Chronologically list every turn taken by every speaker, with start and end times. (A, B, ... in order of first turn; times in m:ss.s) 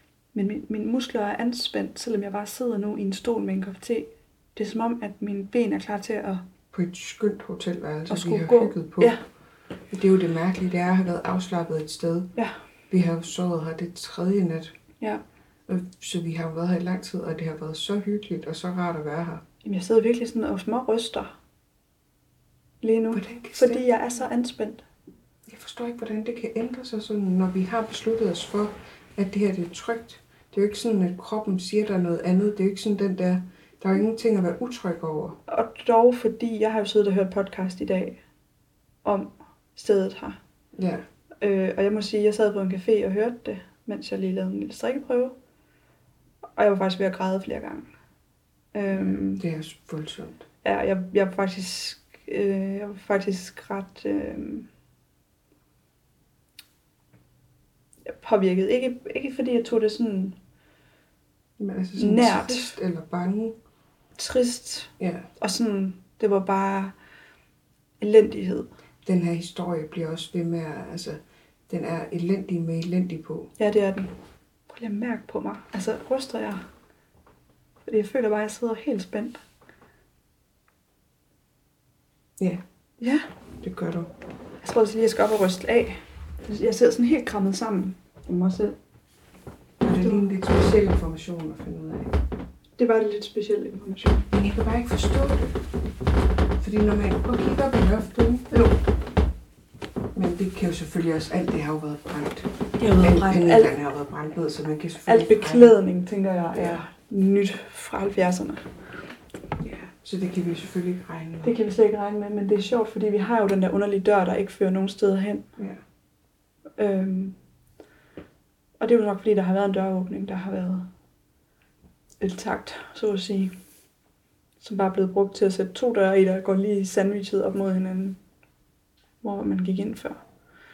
0:00.3-0:06.4 A
0:06.7-0:09.2 B
0:08.1-0:09.2 A
0:09.9-0:12.3 B
0:12.9-0:14.8 B
0:15.7-0:19.4 B
0:19.6-0:21.3 A
0:22.8-0:24.8 A
0:23.1-0:23.8 B
0:25.5-0:35.4 B
0:35.5-0:38.2 A
0:39.0-0:40.4 A
0:40.7-0:41.0 B
0:41.4-0:45.4 A
0:46.6-0:47.9 A
0:48.7-0:49.4 A
0:48.9-0:50.4 B
0:50.6-0:54.7 A
0:58.1-1:00.4 A
1:01.6-1:03.6 B
1:02.0-1:02.8 A
1:04.2-1:06.9 A
1:05.0-1:05.3 B
1:08.0-1:08.7 A
1:09.0-1:13.5 B
1:13.6-1:14.1 A
1:14.7-1:16.7 A
1:17.8-1:19.4 A
1:22.4-1:22.6 B
1:23.0-1:23.3 A
1:23.6-1:24.1 B
1:24.6-1:28.8 A
1:29.8-1:32.2 B
1:29.8-1:30.2 A
1:32.8-1:34.2 A
1:34.3-1:35.6 B
1:36.6-1:38.7 B
1:40.1-1:45.8 B
1:42.8-1:43.7 A
1:45.0-1:48.7 A
1:46.5-1:46.8 B
1:49.6-1:51.6 B
1:51.4-1:55.5 A
1:56.8-1:57.4 A
1:58.8-2:00.9 A
2:02.2-2:03.5 A
2:04.6-2:08.2 A
2:09.2-2:10.2 A